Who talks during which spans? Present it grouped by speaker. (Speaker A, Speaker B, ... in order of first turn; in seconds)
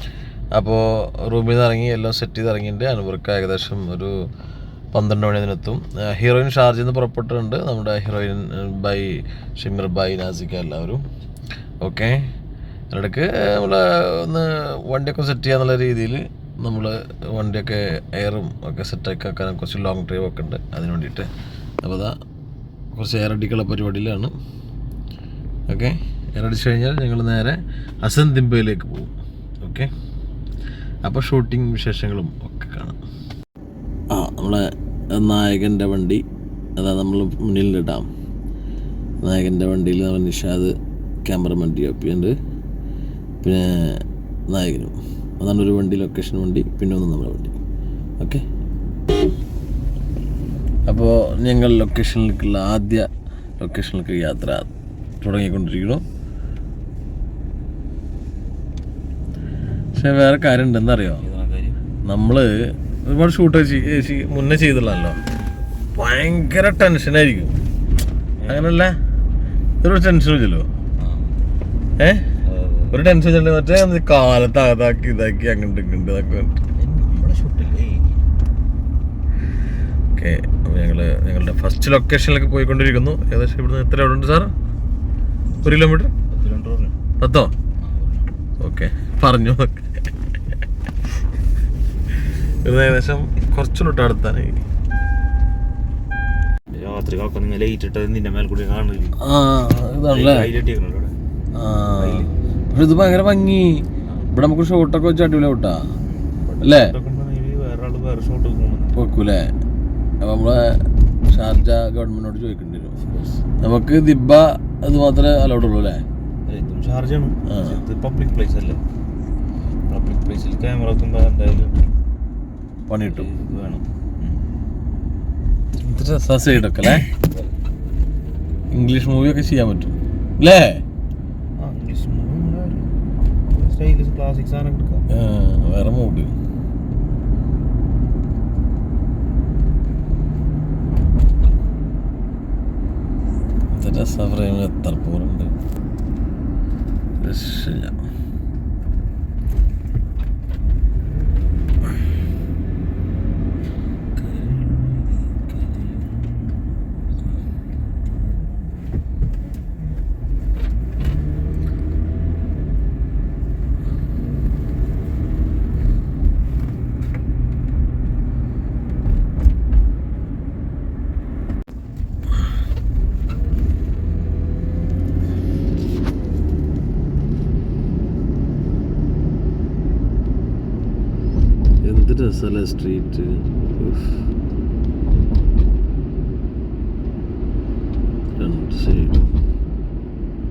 Speaker A: 0.6-4.1, 4.9-11.0, 11.8-12.2, 12.9-21.3, 21.8-22.1, 22.9-24.3, 25.7-29.1, 29.6-29.9, 31.1-33.0, 34.1-34.6, 35.1-36.2, 36.8-38.1, 39.2-40.7, 41.3-42.3, 43.4-47.6, 50.9-53.1, 53.6-54.7, 55.2-56.0, 60.0-61.2, 62.1-62.5, 63.1-65.2, 66.0-67.6, 68.5-69.0, 69.8-70.7, 72.0-72.2, 72.9-76.5, 80.2-84.5, 85.6-86.1, 87.2-87.5, 88.6-90.1, 92.6-94.6, 99.2-100.5, 101.5-105.8, 106.6-106.9, 109.0-109.5, 110.2-113.0, 113.6-116.0, 117.5-117.8, 122.9-123.3, 125.8-127.1, 128.7-130.8, 135.1-136.3, 143.7-145.6, 147.2-148.0, 181.8-184.2, 188.4-189.3
Speaker B: 61.2-61.8, 68.4-68.8, 71.0-71.4, 72.5-73.0, 76.8-78.2, 86.3-86.9, 87.8-88.3, 96.7-99.2, 100.1-101.2, 102.0-102.3, 106.1-109.0, 113.1-113.4, 116.5-118.8, 119.9-121.8, 123.1-124.4, 127.1-127.5, 131.6-132.9, 133.5-135.0, 154.2-156.7, 157.3-158.2